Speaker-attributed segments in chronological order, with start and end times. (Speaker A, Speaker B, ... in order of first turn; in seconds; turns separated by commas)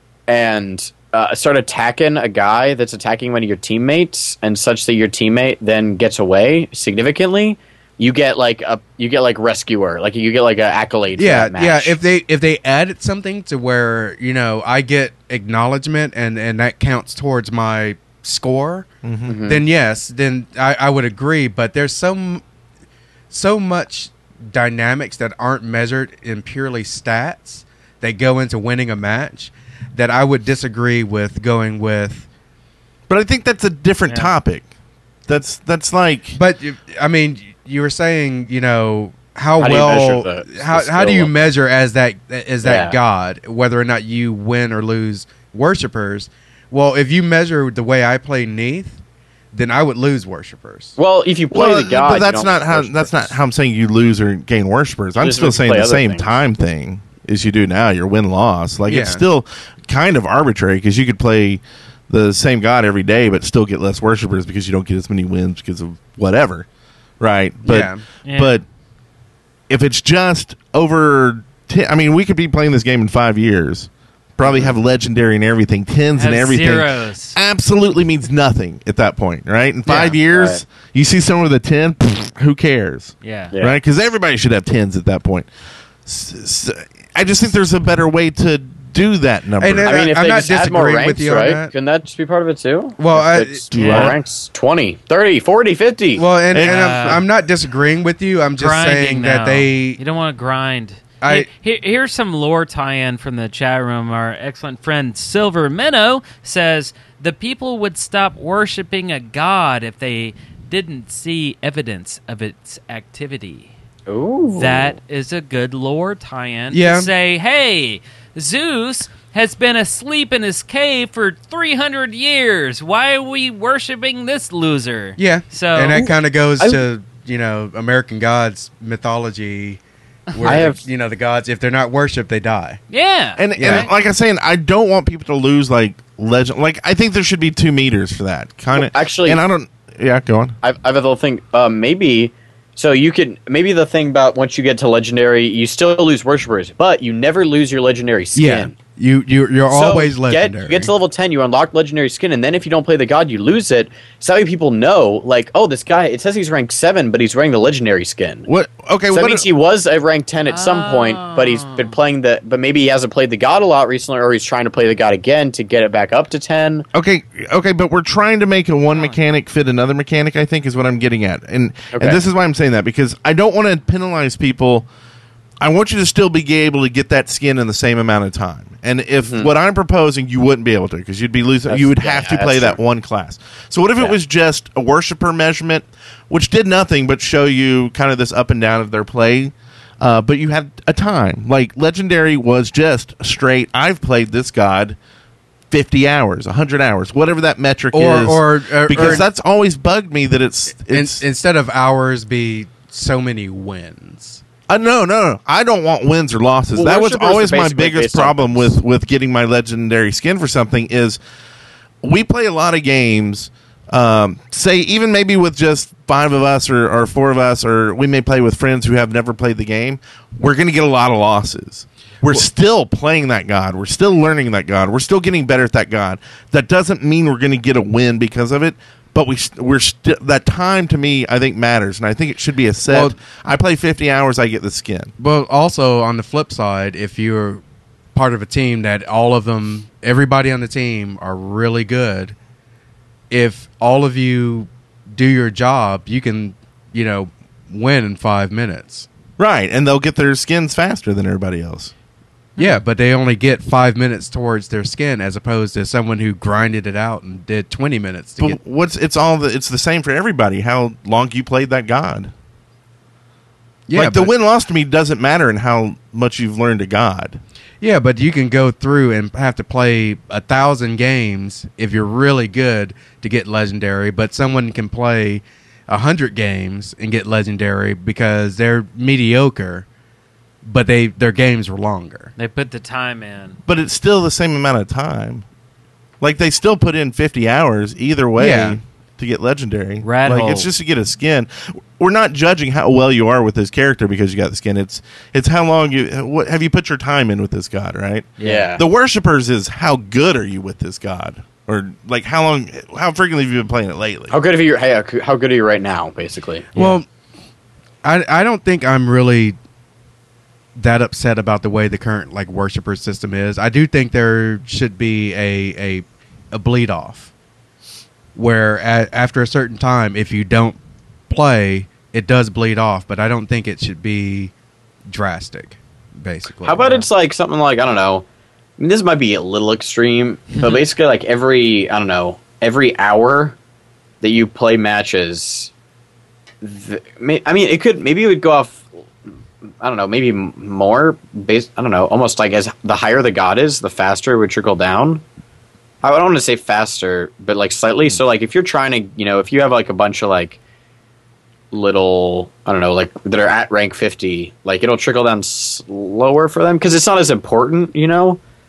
Speaker A: 0.3-12.0, Speaker B: 11.2-18.9, Speaker C: 19.0-19.4, Speaker A: 19.2-19.6, Speaker B: 19.4-22.4, Speaker B: 23.3-32.3, Speaker C: 33.1-34.7, Speaker C: 35.3-36.4, Speaker B: 36.3-49.0, Speaker A: 39.6-41.4, Speaker A: 42.6-43.0, Speaker B: 49.5-51.0, Speaker A: 51.0-53.3, Speaker C: 51.5-66.7, Speaker A: 55.1-56.3, Speaker B: 58.9-59.2, Speaker C: 67.2-68.6, Speaker B: 67.6-68.0, Speaker D: 68.2-68.6, Speaker C: 69.7-85.5, Speaker A: 74.4-74.7, Speaker D: 76.1-77.3, Speaker B: 79.9-80.2, Speaker A: 80.3-80.6, Speaker D: 83.2-83.5, Speaker A: 83.5-83.8, Speaker C: 86.0-90.0, Speaker B: 89.6-91.7, Speaker A: 89.8-96.2, Speaker B: 93.0-94.1, Speaker C: 93.7-94.2, Speaker D: 93.7-94.1, Speaker B: 96.2-100.0, Speaker C: 96.5-97.2, Speaker D: 96.6-97.2, Speaker D: 98.6-113.7, Speaker B: 101.2-101.5, Speaker A: 114.1-115.0, Speaker D: 114.6-126.1, Speaker B: 116.7-117.1, Speaker B: 125.2-129.8, Speaker B: 130.3-132.8, Speaker A: 130.4-130.8, Speaker D: 132.9-133.9, Speaker C: 133.4-140.6, Speaker B: 133.6-133.9, Speaker A: 138.7-139.4, Speaker A: 140.6-148.7, Speaker B: 148.3-150.9, Speaker A: 149.7-158.5, Speaker C: 158.5-159.4, Speaker A: 159.1-166.8, Speaker D: 160.5-161.9, Speaker C: 166.9-174.9, Speaker D: 168.9-169.2, Speaker A: 171.9-172.2, Speaker C: 175.6-195.0, Speaker A: 179.2-179.5, Speaker A: 181.7-182.8, Speaker C: 195.7-201.2, Speaker B: 197.9-199.2, Speaker B: 200.9-204.4, Speaker C: 204.7-211.2, Speaker A: 206.7-208.8, Speaker C: 212.0-235.1, Speaker B: 232.9-233.2, Speaker B: 235.2-237.6, Speaker B: 238.1-242.3, Speaker B: 243.3-249.1, Speaker C: 249.4-251.9, Speaker B: 252.6-258.6, Speaker C: 258.4-262.3, Speaker B: 263.9-264.3, Speaker C: 263.9-267.4, Speaker B: 267.8-279.9, Speaker B: 280.6-282.3, Speaker D: 282.4-283.6, Speaker C: 283.7-285.4, Speaker C: 286.2-304.3, Speaker B: 288.4-288.8, Speaker D: 290.0-290.7, Speaker D: 298.4-298.7, Speaker A: 298.4-298.8, Speaker A: 304.3-306.7, Speaker B: 306.7-307.0, Speaker B: 308.0-309.6, Speaker B: 310.8-317.3, Speaker B: 318.3-324.5, Speaker B: 325.1-327.1, Speaker A: 326.6-328.2, Speaker A: 328.8-333.6, Speaker A: 334.2-335.7, Speaker A: 336.6-338.9, Speaker A: 339.8-345.2, Speaker A: 346.0-350.6, Speaker A: 351.7-358.4